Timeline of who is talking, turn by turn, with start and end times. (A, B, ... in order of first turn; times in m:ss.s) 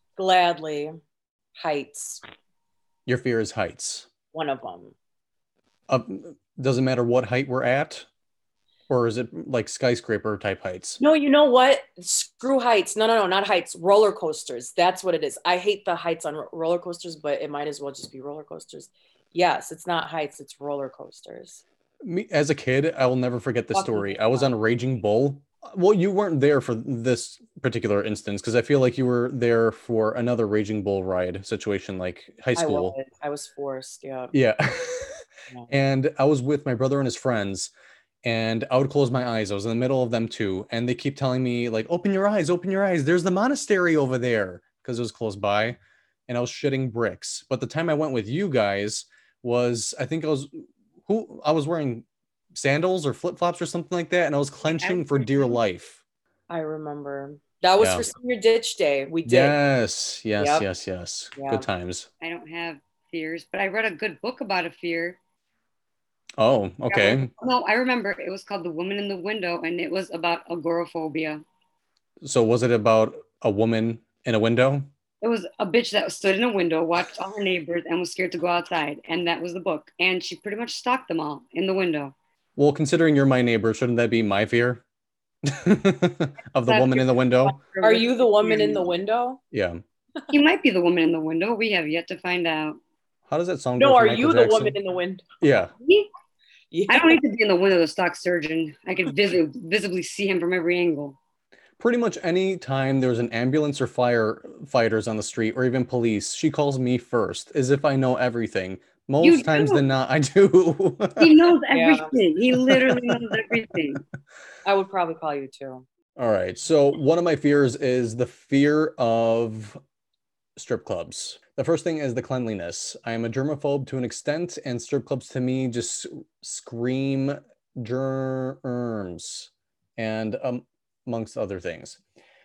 0:00.2-0:01.0 A
0:01.6-0:02.2 A
0:03.1-0:04.1 B
0:04.3-0:04.9 A
0:05.9-0:08.1 B
0:08.9-0:11.0 B
0:11.0-0:21.6 A
0:22.0-0:33.0 B
0:23.7-0:24.5 C
0:32.6-0:34.3 A
0:34.3-0:37.7 B
0:38.2-0:56.0 B
0:54.6-0:55.6 C
0:56.5-0:59.6 A
0:57.8-0:58.1 B
0:59.2-1:02.1 B
1:00.4-1:00.6 A
1:01.3-1:01.7 A
1:02.2-1:05.2 C
1:06.4-1:07.3 B
1:06.9-1:11.4 C
1:12.2-1:14.9 B
1:15.2-1:22.1 C
1:22.6-1:24.8 B
1:25.4-1:27.6 B
1:26.7-1:28.9 C
1:27.8-1:29.4 A
1:29.5-1:29.8 B
1:30.3-1:32.8 C
1:33.3-1:34.8 B
1:33.8-1:35.3 A
1:35.4-1:35.7 B
1:35.8-1:36.1 C
1:36.7-1:37.2 A
1:36.9-1:41.2 C
1:41.8-1:51.3 B
1:49.2-1:49.9 C
1:51.2-1:54.0 C
1:51.7-1:52.2 A
1:52.5-1:53.5 B
1:54.6-1:55.8 A
1:56.2-1:59.8 B
2:00.6-2:12.0 B